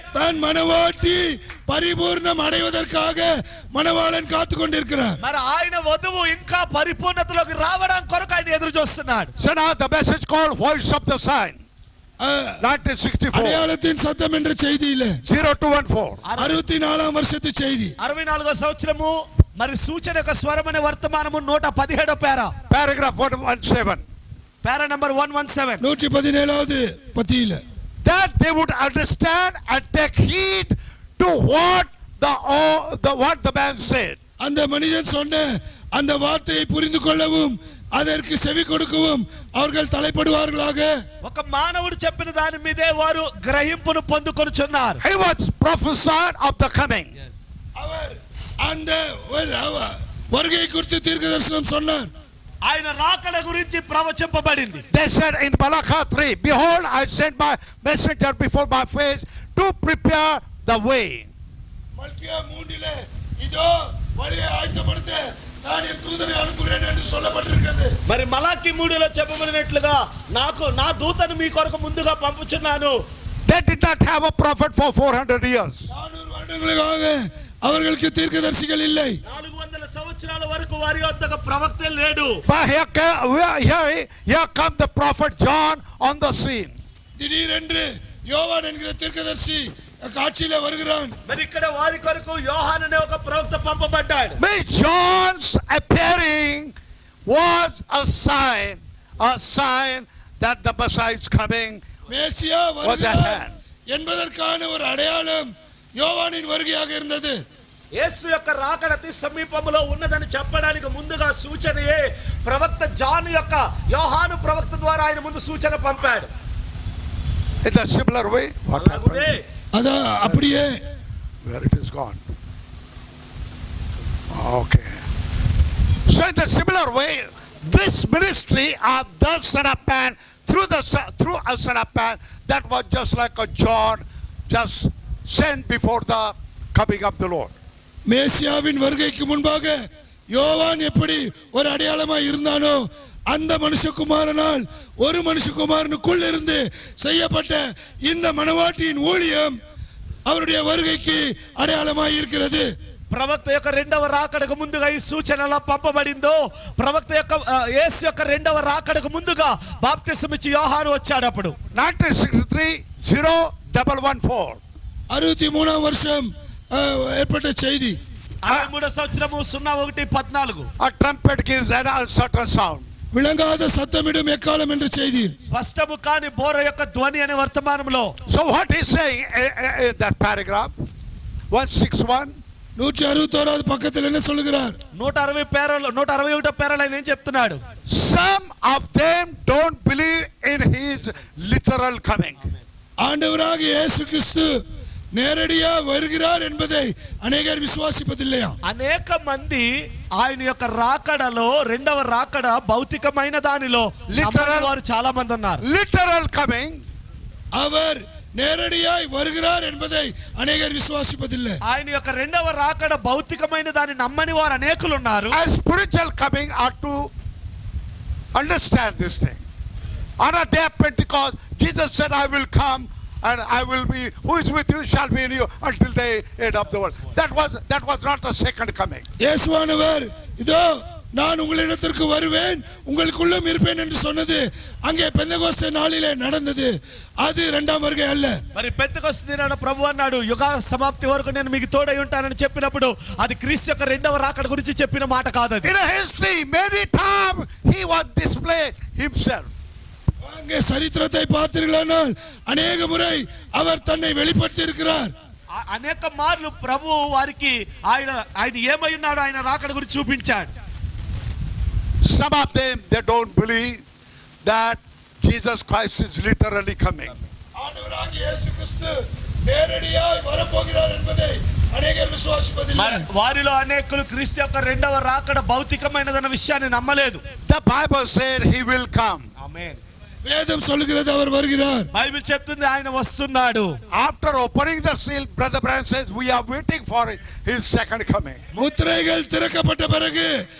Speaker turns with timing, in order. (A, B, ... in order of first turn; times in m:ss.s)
0:00.1-0:05.2 A
0:05.2-0:09.3 B
0:09.4-0:11.6 C
0:12.2-0:12.6 A
0:12.6-0:13.7 C
0:13.3-0:15.2 A
0:15.2-0:16.2 C
0:16.2-0:16.6 B
0:16.4-0:17.9 A
0:18.0-0:22.5 B
0:22.7-0:24.0 C
0:24.6-0:25.8 B
0:25.8-0:27.6 A
0:28.0-0:34.2 C
0:34.4-0:40.9 A
0:41.2-0:45.0 B
0:45.0-0:47.1 C
0:47.8-0:52.1 A
0:52.6-0:54.8 B
0:54.9-1:01.3 C
1:02.0-1:07.9 A
1:08.1-1:13.0 B
1:13.5-1:15.8 C
1:15.9-1:19.2 A
1:19.2-1:22.4 B
1:22.4-1:26.7 C
1:27.2-1:31.2 A
1:31.3-1:34.4 B
1:34.4-1:36.7 C
1:37.3-1:41.8 C
1:42.1-1:47.4 A
1:42.8-1:43.6 C
1:47.9-1:56.3 B
1:57.6-1:59.3 C
1:58.7-1:59.4 B
1:59.7-2:00.8 A
2:01.4-2:02.2 C
2:04.3-2:05.0 C
2:06.1-2:17.5 C
2:18.1-2:29.5 A
2:30.3-2:32.7 A
2:33.1-2:41.6 B
2:41.7-2:44.6 C
2:45.1-2:48.0 A
2:48.4-2:50.7 B
2:50.8-2:52.9 C
2:53.1-2:55.3 A
2:55.5-2:58.1 B
2:58.3-3:00.7 C
3:01.5-3:02.3 C
3:02.8-3:04.7 A
3:04.9-3:07.6 B
3:07.9-3:12.4 C
3:13.0-3:14.5 A
3:15.1-3:18.6 A
3:18.6-3:25.6 B
3:24.1-3:24.7 C
3:25.6-3:26.8 C
3:27.5-3:31.6 A
3:31.6-3:35.4 B
3:35.3-3:37.1 C
3:38.3-3:39.4 C
3:40.2-3:49.0 C
3:49.2-3:50.6 A
3:51.2-3:58.4 A
3:58.5-4:05.7 B
4:05.6-4:09.5 C
4:10.2-4:15.1 A
4:15.5-4:20.5 B
4:22.0-4:23.8 C
4:24.4-4:27.2 C
4:27.6-4:33.0 A
4:32.7-4:37.2 B
4:37.4-4:39.2 C
4:39.4-4:39.8 B
4:40.2-4:41.9 A
4:41.9-4:43.7 B
4:43.9-4:48.4 C
4:48.6-4:50.3 A